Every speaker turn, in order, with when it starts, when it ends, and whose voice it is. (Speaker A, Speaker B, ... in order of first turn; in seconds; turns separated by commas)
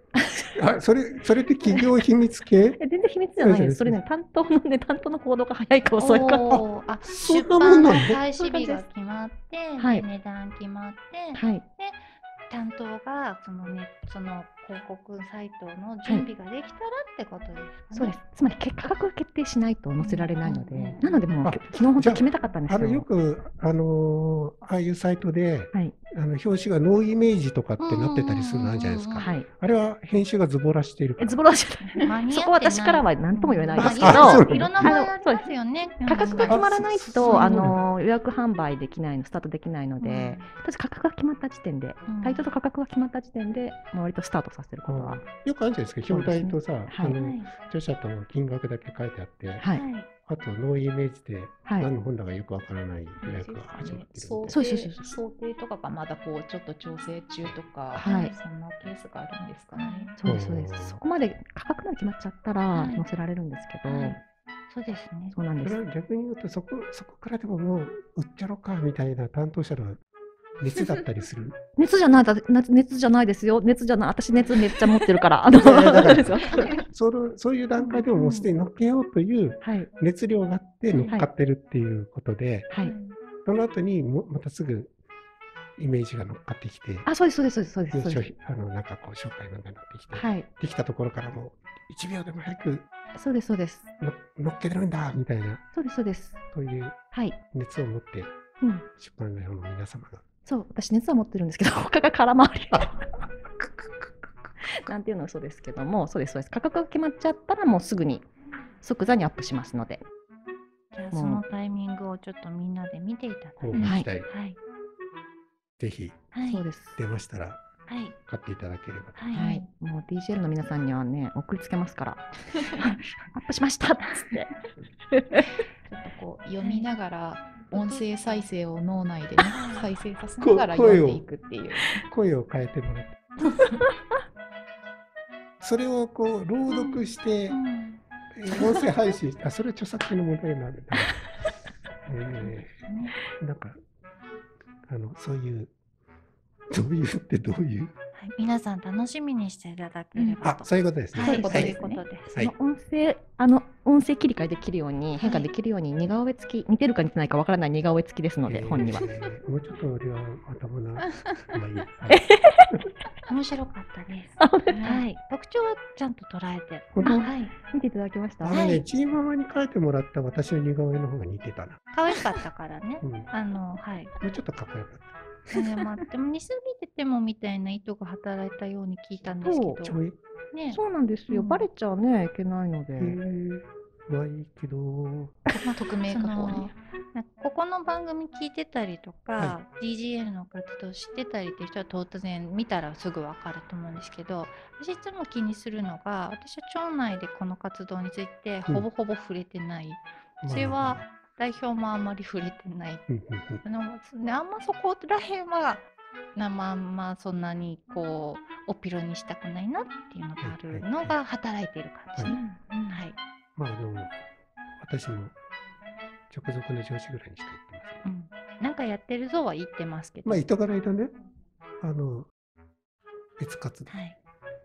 Speaker A: 0.2-0.5, Speaker B: 0.6-2.8, Speaker A: 2.8-6.6, Speaker B: 3.4-4.0, Speaker C: 6.0-18.2, Speaker B: 6.5-8.2, Speaker A: 8.3-8.9, Speaker A: 9.8-10.1, Speaker A: 11.3-11.7, Speaker A: 17.9-23.1, Speaker C: 20.0-21.3, Speaker B: 21.4-31.4, Speaker A: 25.7-26.0, Speaker C: 27.8-29.3, Speaker A: 29.2-29.5, Speaker A: 31.2-45.3, Speaker C: 31.8-36.6, Speaker B: 33.8-35.0, Speaker B: 36.5-37.8, Speaker C: 37.2-37.6, Speaker C: 40.0-40.5, Speaker C: 42.1-42.5, Speaker B: 44.8-49.7, Speaker A: 46.0-47.2, Speaker C: 47.1-47.5, Speaker A: 49.6-49.9, Speaker C: 49.7-50.1, Speaker B: 50.3-54.6, Speaker A: 51.7-51.9, Speaker D: 53.2-60.1, Speaker A: 54.5-55.1, Speaker A: 57.9-58.3, Speaker C: 58.1-58.4, Speaker C: 59.8-60.1, Speaker A: 60.2-64.2, Speaker B: 60.2-61.0, Speaker C: 62.7-63.1, Speaker C: 63.8-65.4, Speaker A: 65.3-65.8, Speaker B: 65.6-70.0, Speaker B: 70.6-71.6, Speaker A: 71.8-76.6, Speaker B: 75.5-82.7, Speaker A: 78.0-78.5, Speaker A: 79.6-79.9, Speaker D: 82.8-83.2, Speaker B: 83.4-84.9, Speaker B: 85.8-87.1, Speaker A: 87.0-88.2, Speaker B: 87.9-92.9, Speaker A: 90.1-90.5, Speaker A: 93.2-93.9, Speaker B: 94.0-95.7, Speaker A: 95.7-96.4, Speaker B: 96.5-97.0, Speaker A: 97.1-97.4, Speaker B: 97.5-98.3, Speaker A: 98.6-98.9, Speaker B: 98.9-100.2, Speaker A: 100.5-103.2, Speaker A: 104.6-108.3, Speaker A: 108.8-110.0, Speaker C: 110.9-114.6, Speaker A: 111.1-111.4, Speaker B: 113.6-114.3, Speaker A: 113.7-114.1, Speaker B: 115.8-116.2, Speaker C: 116.3-116.7, Speaker A: 116.5-117.0, Speaker B: 117.0-117.6, Speaker C: 117.9-118.2, Speaker B: 118.3-119.3, Speaker C: 119.2-119.7, Speaker A: 119.3-124.5, Speaker C: 122.8-123.3, Speaker A: 125.1-125.5, Speaker D: 125.9-131.9, Speaker C: 126.6-126.9, Speaker C: 127.7-128.5, Speaker C: 129.4-129.9, Speaker B: 130.4-131.3, Speaker B: 132.1-133.2, Speaker B: 135.6-137.6, Speaker C: 136.7-139.2, Speaker B: 138.3-141.3, Speaker B: 142.1-142.8, Speaker C: 142.4-143.2, Speaker B: 143.4-143.8, Speaker B: 144.9-145.7, Speaker B: 146.7-147.9, Speaker C: 148.2-152.4, Speaker D: 150.2-150.4, Speaker B: 150.4-151.8, Speaker D: 151.2-152.0, Speaker A: 151.2-151.7, Speaker A: 152.4-159.1, Speaker C: 155.2-155.5, Speaker B: 158.5-162.2, Speaker D: 161.0-161.6, Speaker A: 162.1-162.8, Speaker C: 163.3-167.5, Speaker A: 164.4-165.1, Speaker B: 166.9-167.2, Speaker A: 167.0-168.7, Speaker B: 168.4-171.8, Speaker C: 168.5-168.8, Speaker C: 171.9-174.1, Speaker A: 172.1-172.4, Speaker B: 173.0-173.3, Speaker B: 174.2-175.1, Speaker C: 175.5-180.0, Speaker A: 179.4-179.9, Speaker B: 179.7-180.2, Speaker C: 180.5-181.7, Speaker A: 180.7-183.2, Speaker B: 183.0-185.4, Speaker D: 185.6-186.7, Speaker C: 186.1-203.1, Speaker B: 200.4-201.0, Speaker B: 203.1-203.6, Speaker C: 203.6-205.8, Speaker C: 206.4-213.2, Speaker B: 210.4-211.2, Speaker A: 212.3-213.0, Speaker B: 213.6-214.1, Speaker B: 214.8-215.4, Speaker B: 216.3-218.1, Speaker C: 218.0-220.5, Speaker B: 220.2-221.1, Speaker B: 221.8-222.3, Speaker B: 223.4-223.9, Speaker C: 223.9-224.2